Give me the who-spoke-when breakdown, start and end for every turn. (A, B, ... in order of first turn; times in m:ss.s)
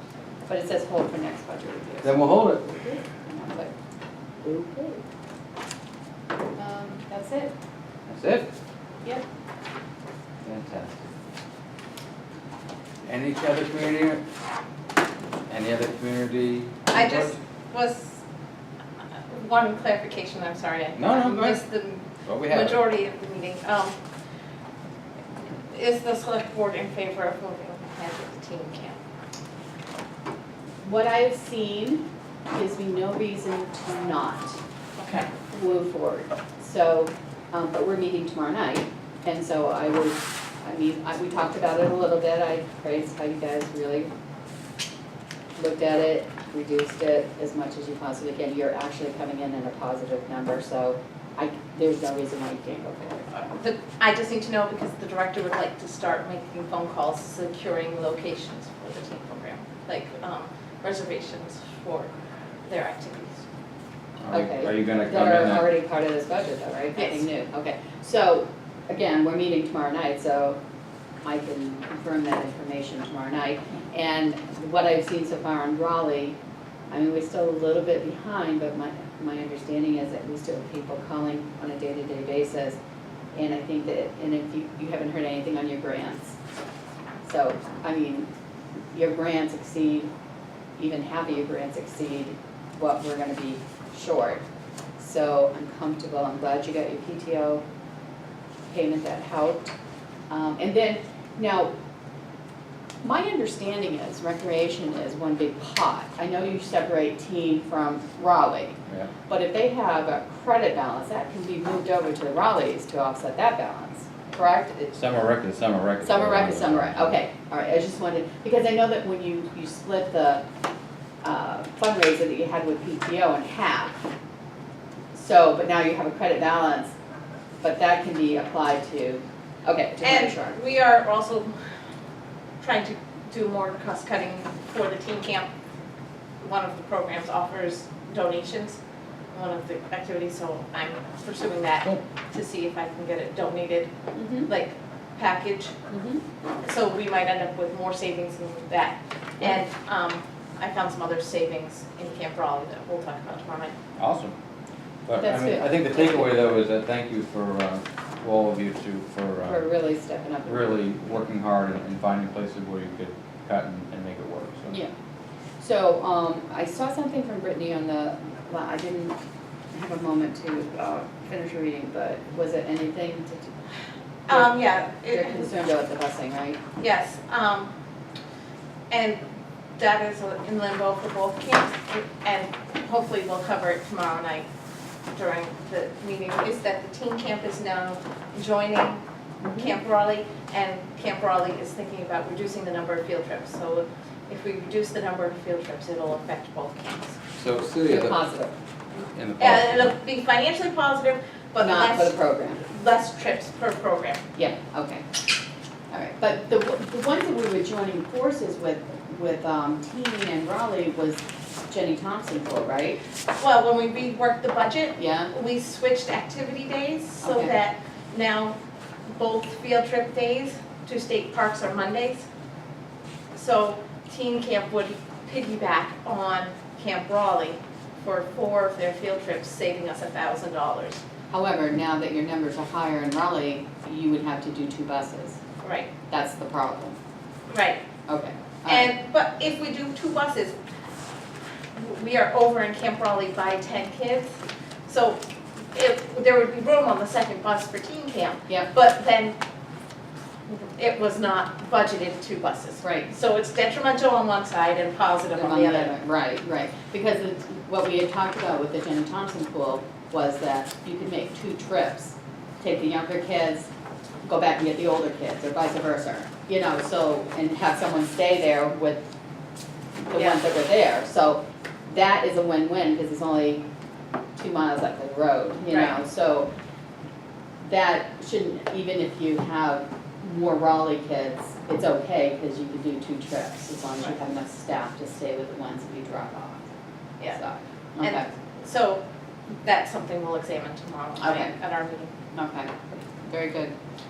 0:00.5-0:03.7 A
0:02.0-0:02.8 B
0:04.4-0:05.0 A
0:06.6-0:07.5 A
0:08.1-0:08.5 B
0:10.4-0:11.0 B
0:13.1-0:14.2 B
0:15.5-0:17.4 B
0:16.9-0:18.2 C
0:19.3-0:24.0 C
0:21.0-0:21.6 B
0:22.3-0:22.8 B
0:25.7-0:29.0 C
0:30.8-0:34.6 A
0:35.0-0:35.3 C
0:35.5-0:44.1 A
0:45.6-0:53.5 A
0:53.4-1:02.1 C
1:02.7-1:03.4 C
1:04.2-1:05.7 B
1:04.3-1:10.6 A
1:07.0-1:07.2 C
1:11.2-1:16.4 A
1:16.9-1:22.8 A
1:23.4-1:26.4 A
1:27.2-1:28.3 A
1:28.9-1:30.1 A
1:30.8-1:34.4 A
1:35.0-1:37.6 A
1:38.7-1:39.7 A
1:40.3-1:41.7 A
1:43.0-1:54.9 A
1:54.9-1:57.1 B
1:56.0-2:00.4 A
2:01.2-2:04.0 A
2:05.1-2:06.9 A
2:07.6-2:10.6 A
2:10.0-2:11.5 C
2:12.6-2:15.5 C
2:16.4-2:18.8 C
2:19.3-2:23.9 C
2:24.2-2:24.5 A
2:24.5-2:25.8 C
2:25.9-2:26.2 A
2:26.6-2:33.7 C
2:34.0-2:34.4 B
2:35.1-2:39.6 B
2:35.2-2:36.3 A
2:39.4-2:40.7 A
2:40.5-2:44.7 B
2:45.6-2:49.2 A
2:49.7-2:53.5 A
2:54.3-2:55.5 C
2:54.3-2:56.6 A
2:56.8-2:57.7 C
2:58.9-2:59.2 C
2:59.8-3:04.5 C
3:05.1-3:09.0 C
3:09.4-3:09.7 A
3:09.6-3:17.2 C
3:17.4-3:18.2 B
3:17.8-3:18.6 A
3:19.1-3:19.9 B
3:19.4-3:24.2 C
3:21.6-3:22.6 A
3:24.4-3:25.0 A
3:25.9-3:33.0 A
3:33.4-3:38.6 C
3:35.0-3:35.3 A
3:37.2-3:37.6 A
3:39.1-3:42.2 C
3:43.3-3:51.0 C
3:51.3-3:55.4 A
3:55.6-3:55.9 C
3:56.1-3:57.0 A
3:57.5-3:57.8 C
3:58.1-3:58.9 A
3:58.6-4:00.6 C
4:01.8-4:04.4 C
4:04.9-4:05.2 C
4:05.7-4:09.4 C
4:10.5-4:16.0 C
4:12.8-4:13.1 A
4:15.4-4:23.7 A
4:24.3-4:29.1 A
4:30.1-4:33.6 A
4:30.1-4:30.4 C
4:34.4-4:36.5 A
4:37.6-4:46.7 A
4:47.3-4:48.3 A
4:48.0-4:49.0 C
4:49.6-4:52.1 C
4:51.2-4:51.5 A
4:52.3-4:52.7 A
4:53.2-4:53.7 A